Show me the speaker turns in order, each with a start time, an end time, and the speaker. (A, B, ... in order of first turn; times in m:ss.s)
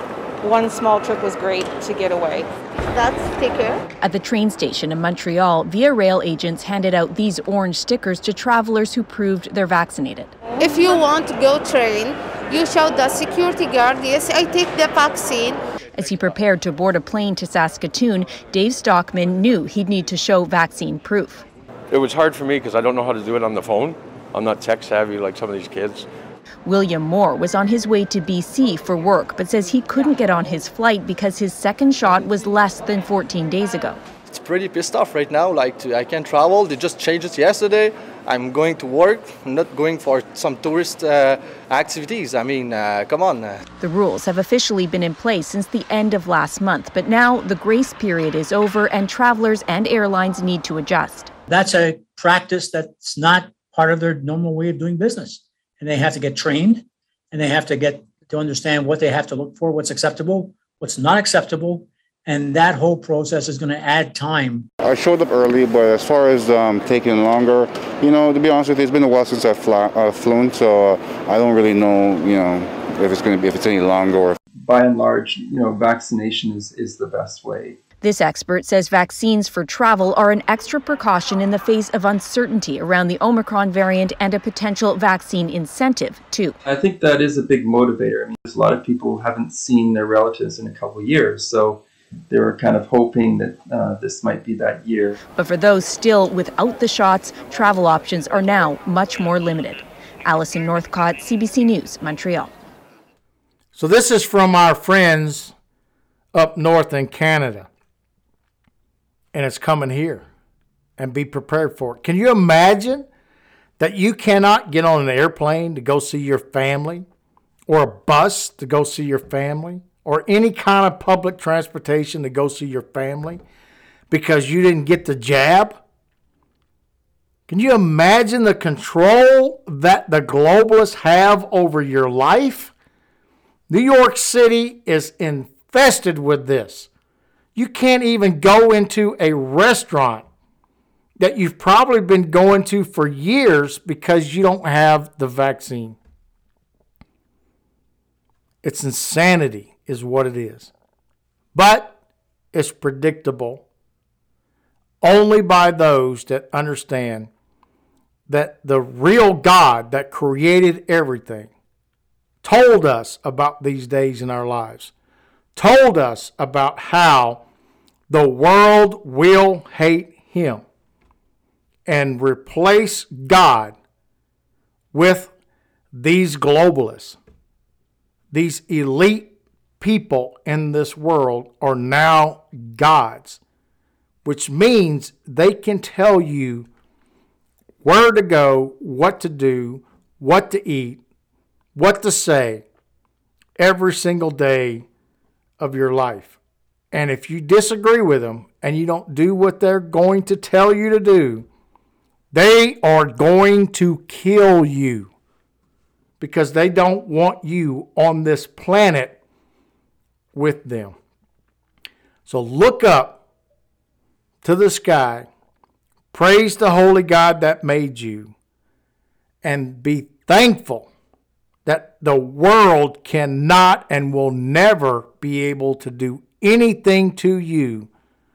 0:00.4-0:02.5 A
0:02.9-0:03.8 B
0:04.0-0:10.3 C
0:10.6-0:15.6 B
0:16.0-0:21.4 C
0:21.9-0:26.1 D
0:26.7-0:34.0 C
0:34.2-0:43.6 E
0:43.8-0:51.3 C
0:51.5-1:04.7 F
1:04.8-1:14.4 G
1:14.6-1:17.8 H
1:18.0-1:26.6 C
1:26.6-1:35.2 H
1:35.4-1:42.5 C
1:43.8-1:45.5 I
1:46.3-1:47.7 I
1:49.3-1:50.2 I
1:51.0-1:53.1 I
1:53.8-1:57.1 I
1:57.7-2:03.4 I
2:04.1-2:05.8 I
2:07.5-2:12.7 I
2:13.7-2:16.9 I
2:17.6-2:20.2 I
2:21.2-2:26.0 I
2:28.6-2:30.7 I
2:31.6-2:31.9 I
2:32.5-2:33.6 I
2:35.0-2:37.3 I
2:38.3-2:41.5 I
2:42.4-2:44.9 I
2:45.6-2:47.4 I
2:48.1-2:50.6 I
2:51.9-2:53.8 I
2:54.9-2:55.3 I
2:55.9-2:57.2 I
2:58.3-3:03.4 I
3:04.2-3:06.7 I
3:07.8-3:11.0 I
3:11.8-3:12.6 I
3:13.6-3:14.8 I
3:15.6-3:16.4 I
3:16.9-3:21.5 I
3:22.3-3:25.1 I
3:26.2-3:29.2 I
3:30.3-3:31.0 I
3:32.3-3:33.2 I
3:34.4-3:35.3 I
3:36.1-3:38.3 I
3:39.4-3:40.9 I
3:41.6-3:47.9 I